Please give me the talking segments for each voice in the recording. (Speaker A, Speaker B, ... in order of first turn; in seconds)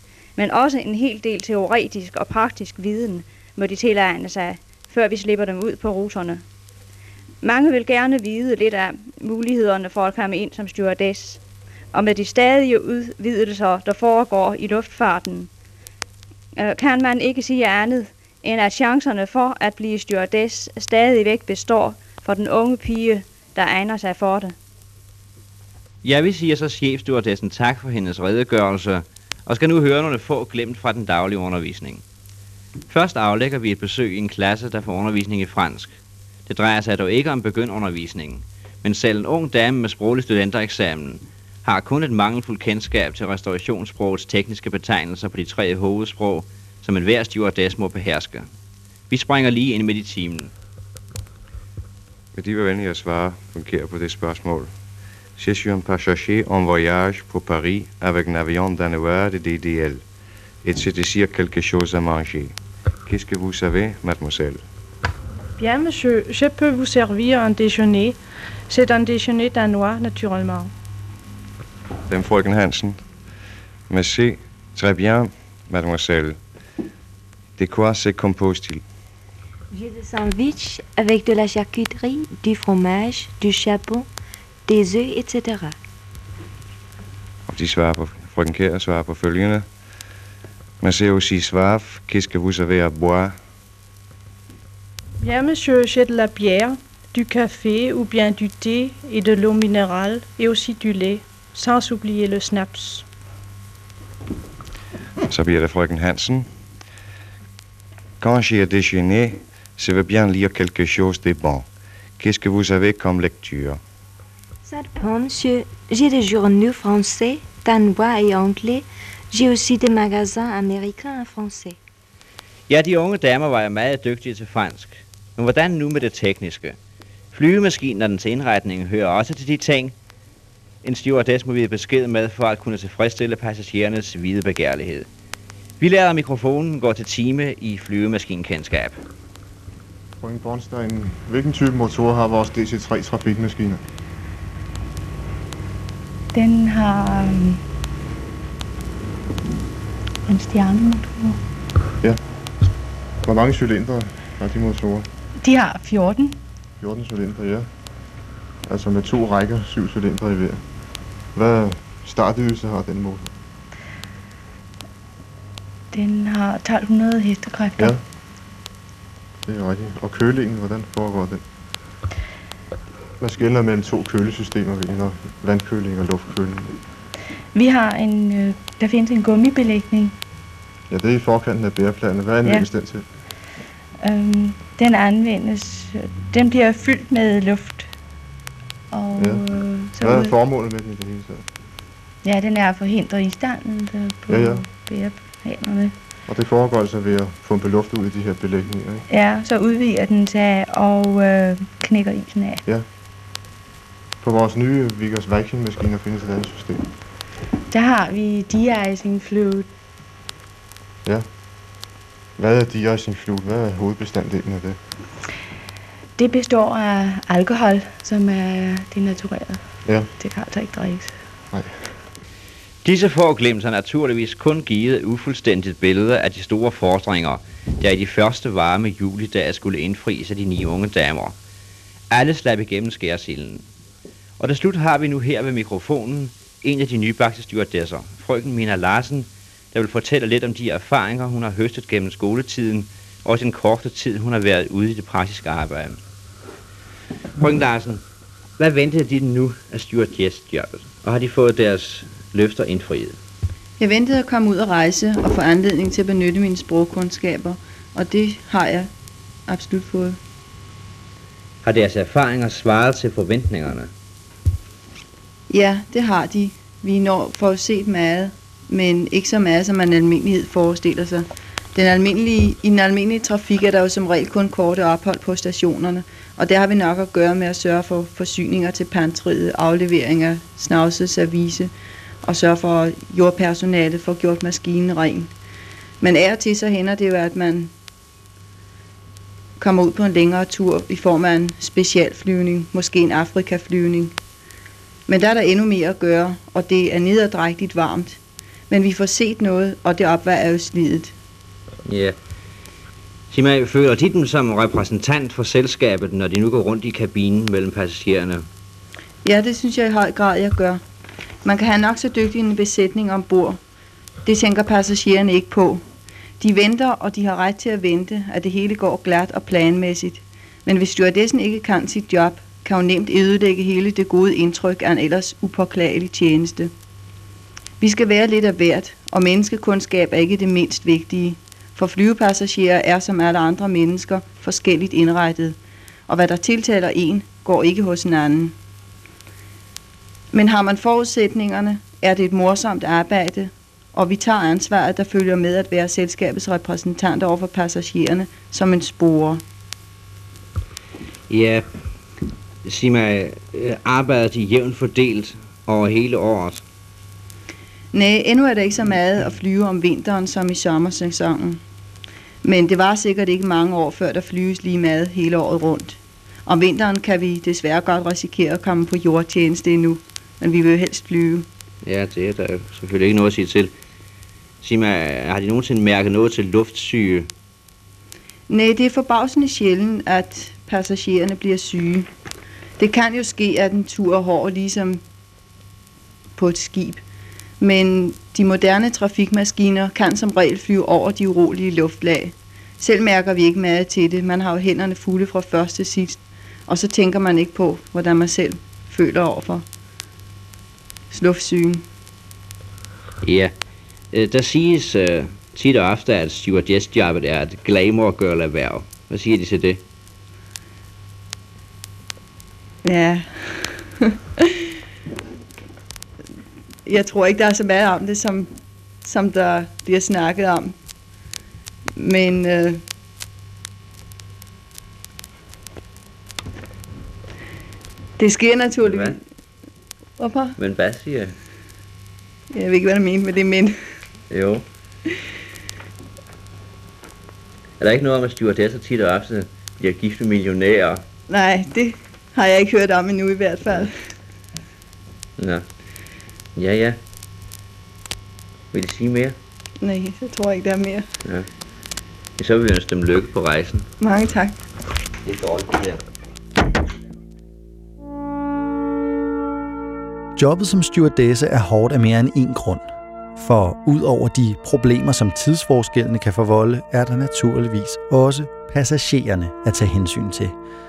Speaker A: 0.4-6.4, 7.4-11.4, 11.9-15.5, 16.5-24.5
Speaker B: 26.0-32.0, 32.9-35.9, 36.5-48.5, 49.1-50.5, 122.7-126.8, 127.3-129.9, 130.8-135.1, 135.8-139.0, 222.8-231.3, 232.1-233.6, 234.4-246.0, 247.4-248.0, 248.6-253.2, 261.6-263.9, 301.9-302.1, 303.3-308.5, 351.3-351.7, 352.6-356.6, 371.8-373.7, 374.6-377.3, 403.2-403.5, 404.1-409.8, 428.8-429.2, 430.6-431.3, 434.3-434.6, 437.8-441.0, 445.4-445.6, 446.6-447.0, 448.7-449.4, 452.4-453.9, 455.2-456.0
Speaker C: 52.3-54.7, 55.4-60.0, 60.6-64.6, 72.1-73.0, 73.9-76.4, 77.6-78.8, 87.5-89.7, 90.8-93.4, 105.3-106.5, 108.2-111.7, 112.2-113.8
Speaker D: 65.6-70.7, 95.2-103.0
Speaker E: 79.9-84.0, 84.7-85.7, 114.7-121.8
Speaker F: 140.2-143.8, 153.2-155.1, 156.8-157.7, 158.7-160.6, 161.3-163.3, 169.5-171.4, 173.2-176.8, 180.9-183.0, 189.2-189.4, 190.0-191.4, 194.3-194.7, 196.3-199.0, 204.2-206.9, 212.4-214.8, 219.8-220.1, 221.5-221.9
Speaker G: 146.3-147.6, 150.3-151.4, 155.4-156.4, 165.9-167.9, 177.5-180.1, 184.0-187.9, 188.9-190.3, 192.2-195.9, 199.1-202.6, 207.7-209.7, 216.2-221.2
Speaker H: 253.8-258.9, 259.5-260.2, 265.5-281.7, 282.2-285.3, 286.0-287.7, 289.6-294.1, 295.1-298.2, 298.7-301.1, 309.2-310.8, 311.4-313.6, 314.2-315.8, 316.4-326.7, 327.8-335.6, 336.1-338.5, 340.3-349.4, 357.9-361.6, 362.4-371.5, 378.5-382.1, 382.8-385.0, 386.4-387.0, 387.6-399.6, 401.1-401.8, 412.8-413.9, 416.9-418.5, 419.0-420.7, 421.9-422.8, 428.2-429.2, 430.2-430.5, 432.5-433.7, 441.3-443.9, 449.8-451.1, 454.0-454.6
Speaker I: 460.4-470.5